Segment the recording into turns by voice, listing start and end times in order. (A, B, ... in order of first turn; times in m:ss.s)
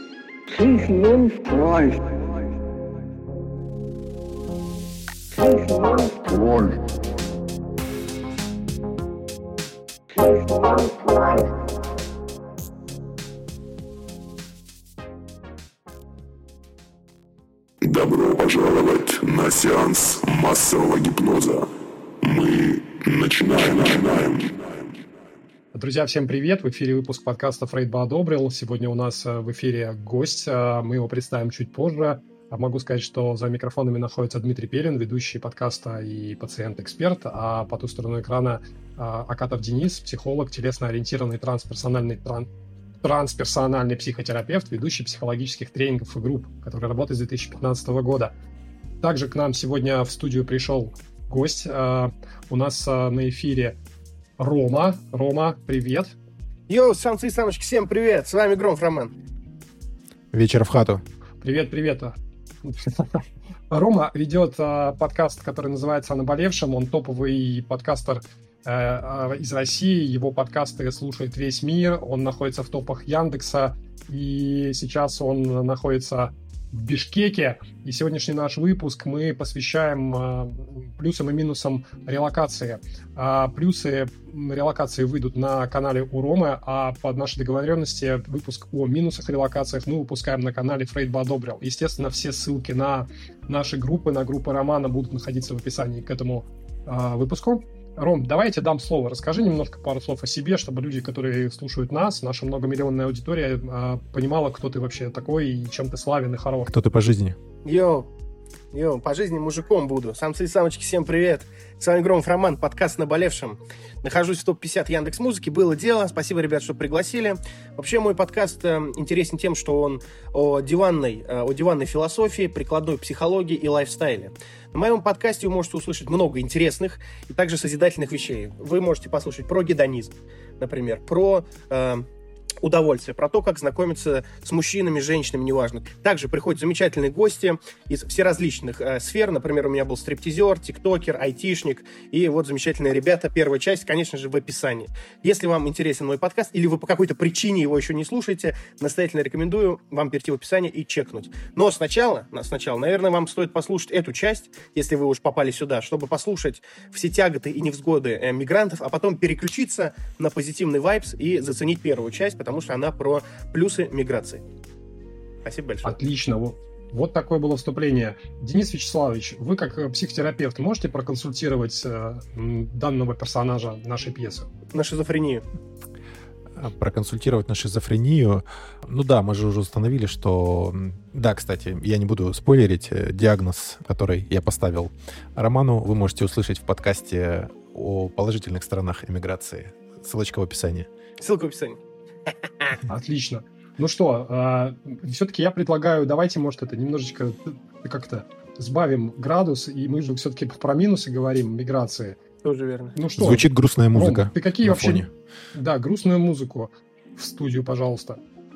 0:00.5-0:02.1 A
0:05.3-0:06.9 A
0:10.1-0:11.5 A
0:17.8-0:21.7 B
0:22.2-0:25.0 B
0:25.7-0:42.5 C
0:43.0-0:48.3 C
0:49.0-0:53.8 C
0:54.4-0:56.2 C
0:56.7-0:59.1 D
1:00.3-1:01.0 E
1:01.4-1:46.7 C
1:46.7-1:47.4 E
1:47.6-1:48.1 D
1:48.7-2:12.1 D
2:12.6-2:44.4 D
2:45.4-2:46.0 D
2:45.8-2:54.5 C
2:54.7-2:55.4 D
2:56.6-3:10.9 E
3:11.2-3:11.8 D
3:12.9-3:22.2 C
3:22.4-3:23.0 D
3:23.0-3:28.2 C
3:23.2-3:25.1 E